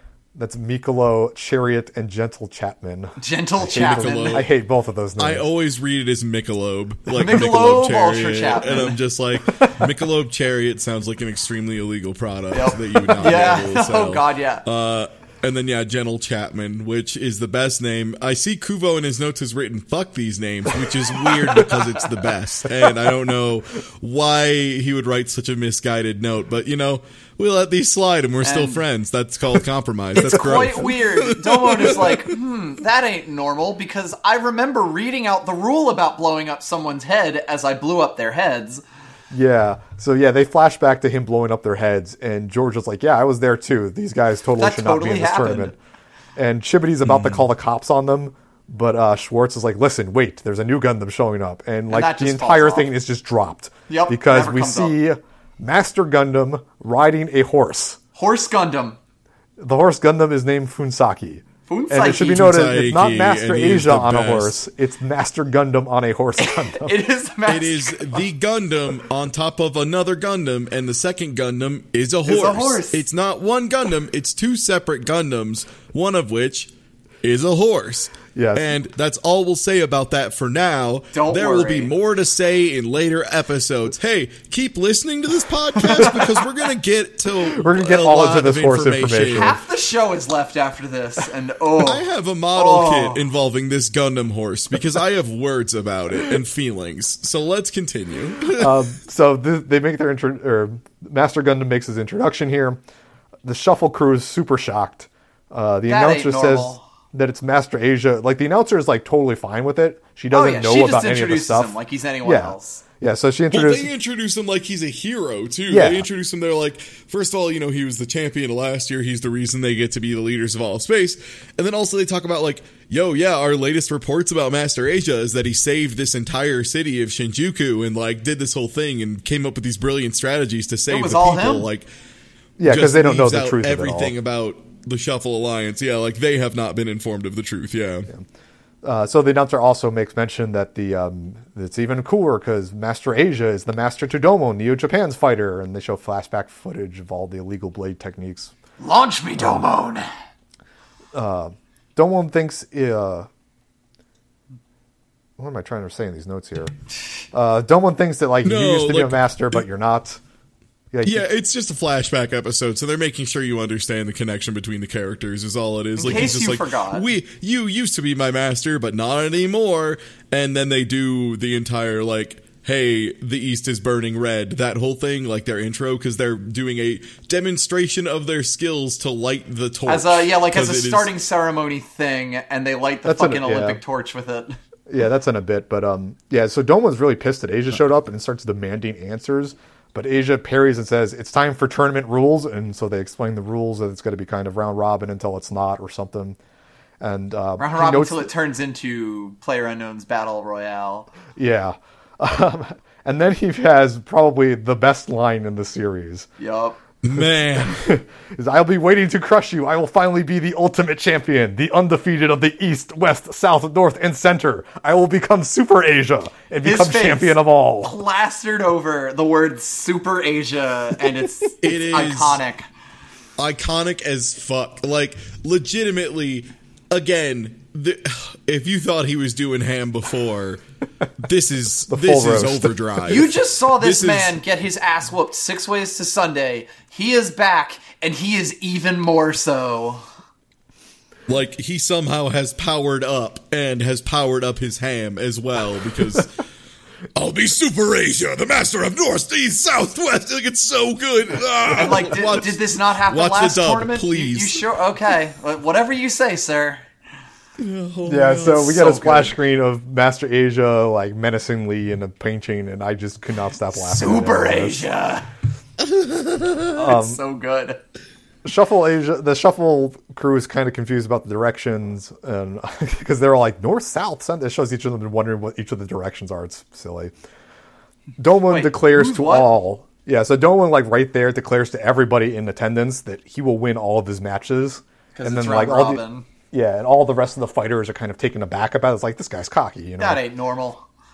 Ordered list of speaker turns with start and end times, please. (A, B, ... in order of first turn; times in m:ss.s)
0:00.4-0:05.5 A
0:03.2-0:04.4 B
0:03.8-0:04.5 C
0:05.2-0:32.4 C
0:07.1-0:09.0 B
0:12.5-0:14.6 B
0:21.4-0:21.9 B
0:28.4-0:28.8 B
0:30.2-0:38.8 B
0:30.3-0:30.8 A
0:39.3-0:45.7 A
0:44.6-0:45.7 B
0:46.4-0:58.0 A
0:47.1-0:47.4 C
0:51.9-0:52.9 B
0:53.9-0:55.0 B
0:58.2-0:59.0 B
0:59.6-1:06.9 A
1:01.7-1:02.5 B
1:02.1-1:04.6 C
1:06.4-1:08.2 B
1:07.5-1:16.7 C
1:12.3-1:13.0 B
1:17.2-1:29.6 C
1:18.3-1:18.7 A
1:21.1-1:21.9 B
1:25.8-1:26.3 B
1:27.4-1:29.6 A
1:29.3-1:32.0 B
1:31.8-1:38.8 C
1:32.6-1:33.2 B
1:38.6-1:42.8 A
1:43.4-1:53.9 A
1:45.9-1:46.8 B
1:50.3-1:52.8 B
1:53.5-2:11.9 C
1:55.7-1:56.1 A
2:10.9-2:11.7 B
2:12.6-2:14.1 A
2:12.6-2:18.1 C
2:18.8-2:28.5 A
2:28.8-2:30.1 B
2:31.1-2:33.3 A
2:35.4-2:36.7 A
2:37.3-2:40.2 A
2:38.4-2:39.6 C
2:40.9-2:41.3 A
2:41.0-3:01.1 C
2:46.0-2:47.0 B
2:59.9-3:04.6 B
3:03.0-3:03.8 A
3:04.9-3:16.4 A
3:17.0-3:18.3 A
3:17.6-3:21.1 B
3:21.4-3:26.3 A
3:26.4-3:26.8 B
3:27.0-3:27.9 C
3:27.2-3:38.0 A
3:36.6-3:42.7 B
3:41.6-3:42.4 C
3:43.4-3:50.6 C
3:51.2-3:54.4 C
3:51.9-3:52.8 A
3:53.1-4:00.0 B
4:01.3-4:06.4 C
4:07.2-4:14.6 C
4:11.7-4:16.9 B
4:17.6-4:19.0 C
4:18.0-4:24.9 A
4:18.8-4:19.3 B
4:23.7-4:25.3 B
4:25.8-4:26.9 C
4:26.8-4:27.8 B
4:26.8-4:27.2 A
4:28.4-4:37.1 A
4:38.2-4:50.2 A
4:38.5-4:39.6 B
4:45.2-4:46.3 B
4:50.0-4:50.8 B